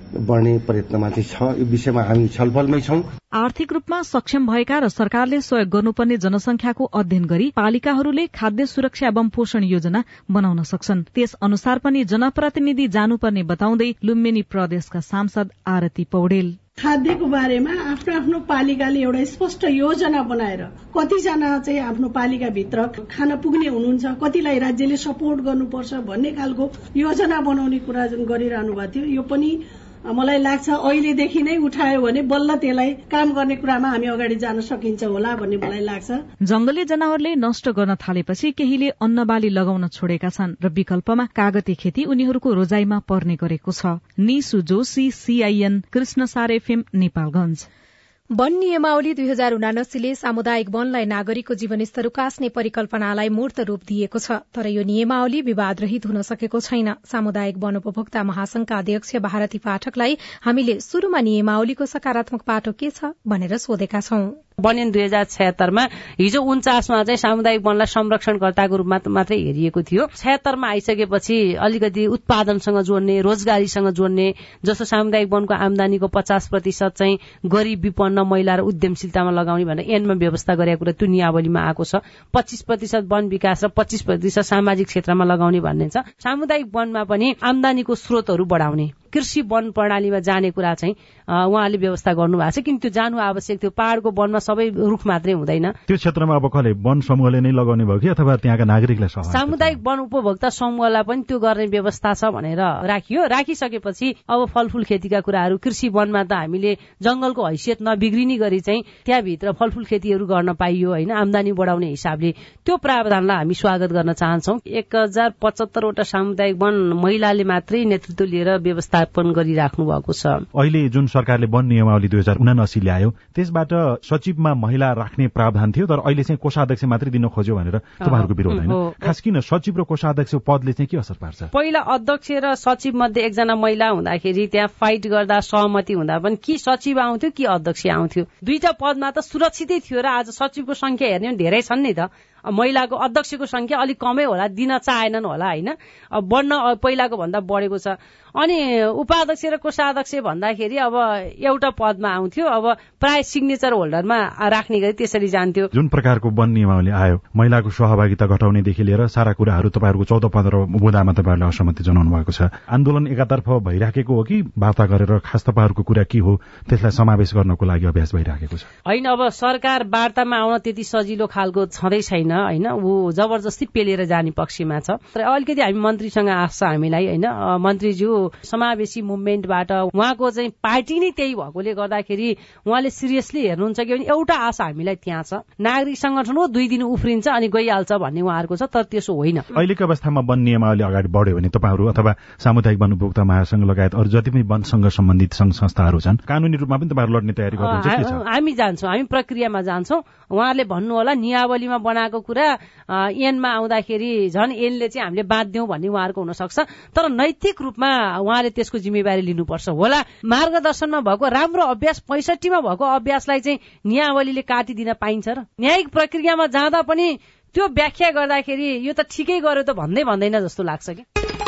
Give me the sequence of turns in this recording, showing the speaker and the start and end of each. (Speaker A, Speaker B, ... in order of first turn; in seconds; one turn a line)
Speaker A: 0.2-3.0
Speaker B: 3.3-16.6
Speaker C: 16.8-29.6
Speaker C: 30.1-36.2
Speaker B: 36.5-47.6
Speaker D: 48.3-64.4
Speaker E: 64.6-95.7
Speaker F: 95.9-99.7
Speaker E: 99.3-120.4
Speaker F: 120.5-131.4
Speaker E: 128.0-129.2
Speaker E: 131.5-155.7
Speaker F: 155.8-168.6
Speaker E: 168.9-189.5
Speaker F: 189.6-197.9
Speaker E: 197.6-221.0